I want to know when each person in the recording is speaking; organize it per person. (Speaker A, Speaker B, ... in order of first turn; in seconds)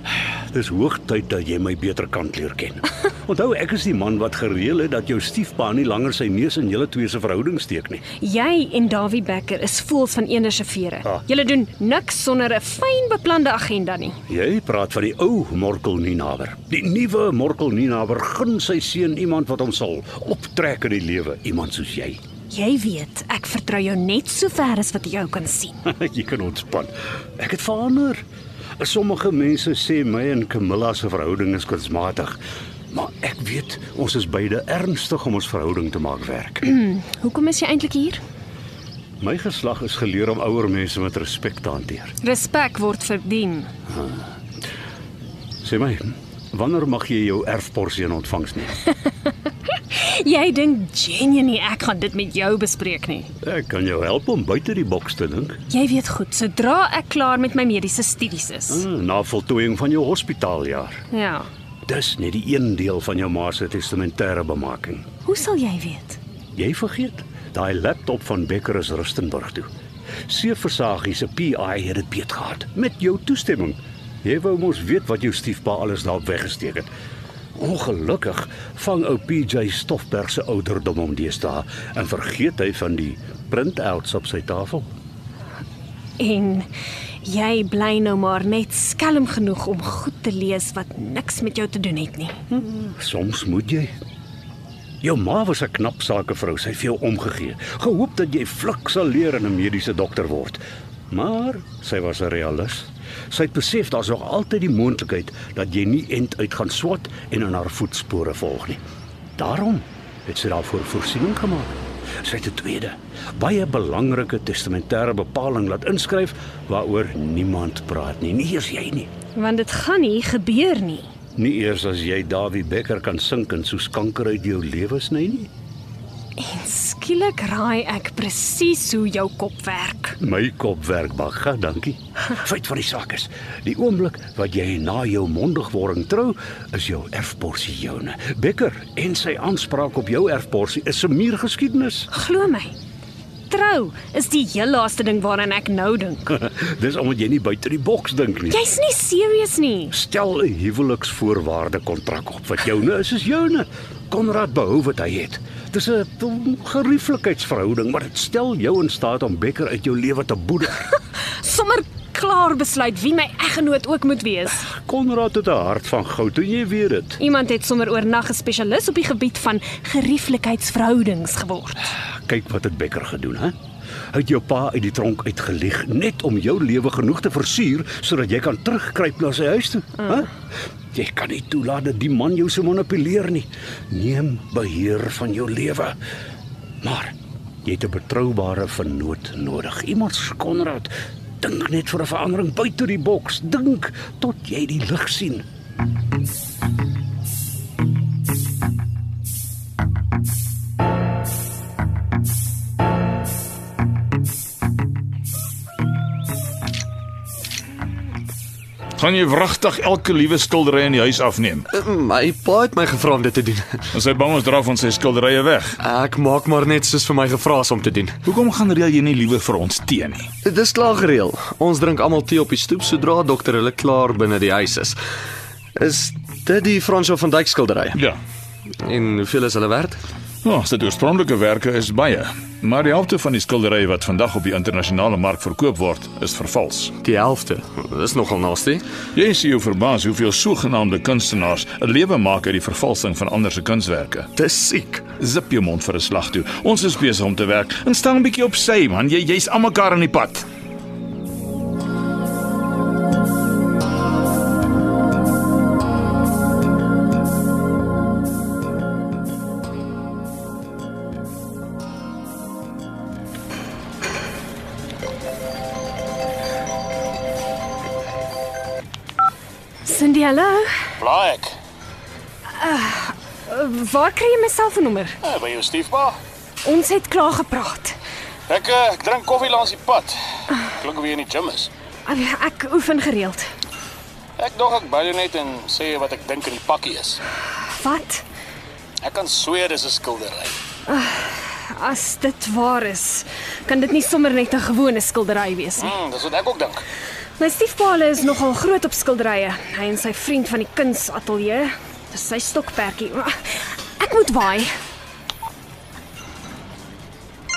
Speaker A: 0.5-8.0, 14.3-22.2, 25.8-28.2, 28.8-32.4, 32.9-36.7, 39.2-42.1, 43.9-44.2, 45.6-48.8, 53.4-55.6, 58.7-61.0, 61.9-65.1, 66.5-69.7, 70.3-76.9, 77.5-84.9, 92.5-93.9, 95.0-108.8, 109.4-119.1, 121.3-125.5, 130.2-142.1, 146.4-148.6, 149.9-160.9, 164.7-167.2, 172.1-173.5, 174.1-180.3, 180.9-186.0, 186.8-195.4
Speaker B: 8.2-14.2, 22.5-25.8, 36.6-38.2, 42.2-43.7, 49.6-53.3, 55.7-58.8, 61.1-61.5, 65.2-66.2, 86.2-86.7, 87.2-92.4, 119.3-121.1, 126.4-130.2, 142.1-142.7, 143.5-146.4, 148.5-149.9, 161.4-164.6, 167.2-171.9, 269.8-270.8, 272.5-275.2, 276.6-278.0, 282.1-283.5, 287.7-288.2, 290.9-295.9, 297.4-303.4, 304.0-304.7
Speaker C: 209.0-211.7, 213.9-215.8, 218.2-220.3, 227.9-228.2, 230.4-236.9, 239.1-244.3, 245.2-250.4
Speaker D: 211.7-213.8, 215.8-218.2, 220.4-225.0, 225.8-227.9, 228.8-230.0, 237.0-238.8, 244.3-245.1
Speaker E: 271.0-271.5, 275.2-276.2, 278.5-281.7, 284.4-287.2, 289.0-290.6, 295.8-296.8